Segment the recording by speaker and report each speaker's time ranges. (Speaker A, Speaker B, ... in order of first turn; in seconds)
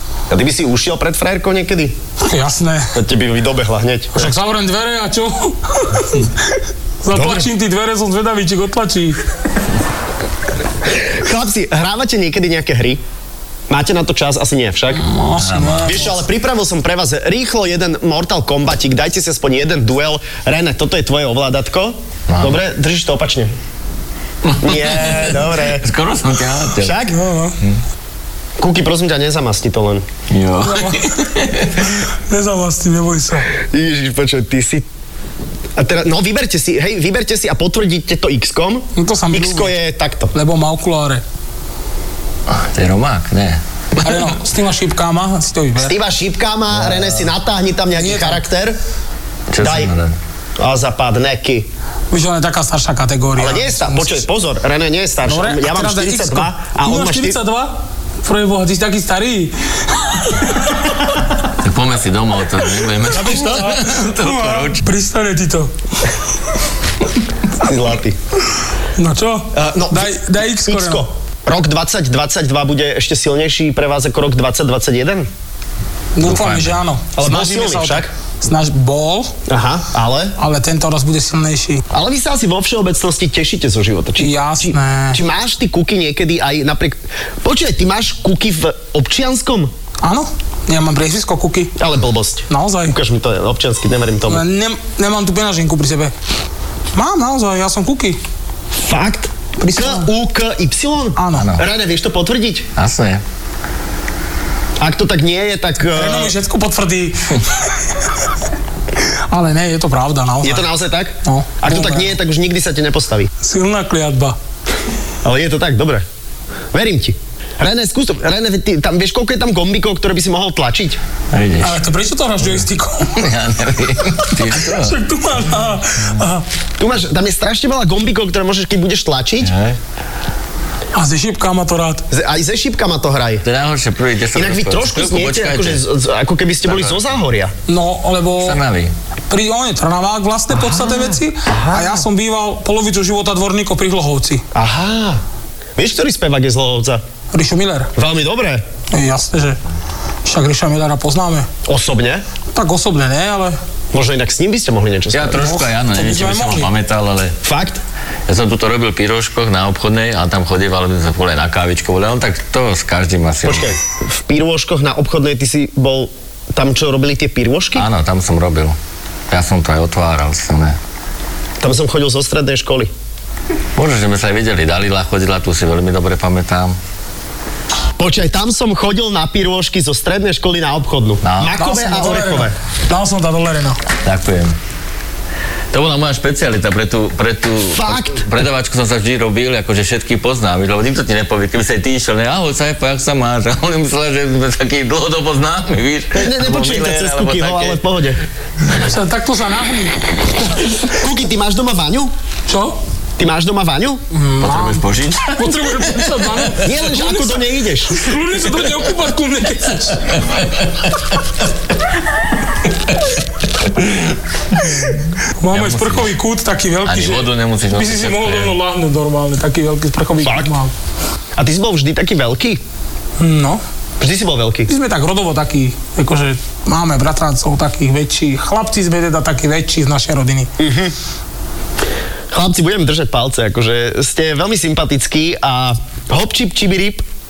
Speaker A: 0.3-2.0, 2.9-4.4, 7.1-7.5, 10.9-13.0, 13.7-15.1, 15.9-23.5, 24.6-25.9, 26.8-27.2, 28.6-30.1, 33.7-34.9, 35.8-40.3, 45.8-48.8, 49.6-50.0, 50.6-51.7, 53.4-57.4, 63.1-63.5, 67.6-68.2, 69.5-75.3, 77.2-78.1, 79.5-80.3, 81.9-89.7, 91.8-94.4, 98.8-102.7, 104.8-106.3, 110.4-113.3, 115.2-116.0, 116.7-121.0, 126.8-129.5, 132.1-133.4, 134.3-137.5, 140.5-142.1, 144.5-145.2, 145.8-147.0, 147.9-148.6, 151.7-152.2, 153.9-155.4, 157.4-157.8, 163.4-167.9, 171.6-172.9, 178.0-182.5, 187.7-188.3, 196.1-198.2, 200.7-202.1, 203.2-204.0, 206.6-207.9, 220.2-220.5, 221.4-222.6, 224.0-224.7, 230.6-230.9, 232.3-237.1
Speaker B: 2.2-3.0, 4.1-6.3, 7.0-9.2, 14.9-16.2, 27.1-27.6, 30.6-31.1, 32.0-33.5, 39.0-39.7, 40.3-41.2, 44.0-46.0, 47.9-48.4, 52.1-54.2, 55.3-60.8, 63.1-65.7, 69.0-71.0, 76.2-79.3, 80.4-81.8, 84.2-85.2, 90.0-91.7, 92.5-93.0, 94.3-96.1, 96.9-98.2, 99.6-100.1, 101.2-101.5, 105.9-107.6, 109.3-110.7, 111.2-112.2, 113.4-114.4, 121.6-123.3, 124.5-126.5, 130.9-132.1, 137.7-138.6, 139.3-144.4, 147.3-147.9, 148.9-149.6, 150.2-151.5, 152.5-153.6, 155.3-156.7, 181.6-183.8, 198.7-200.8, 202.5-202.8, 204.1-210.2, 215.4-220.7, 223.2-223.6, 224.7-230.5
Speaker C: 15.4-16.1, 22.3-22.6, 24.4-26.9, 30.3-31.9, 42.5-44.3, 46.8-47.1, 49.5-50.2, 61.6-64.8, 76.2-76.8, 101.3-101.6, 102.8-103.2, 121.3-121.8, 123.2-125.0, 129.4-129.8, 133.4-135.8, 136.7-137.1, 138.4-138.9, 155.1-157.4, 158.3-163.8, 167.8-168.8, 169.3-170.8, 173.8-176.8, 181.2-181.6, 184.1-184.5, 185.7-197.8, 204.4-206.7, 210.1-211.2, 213.6-216.1, 216.8-218.6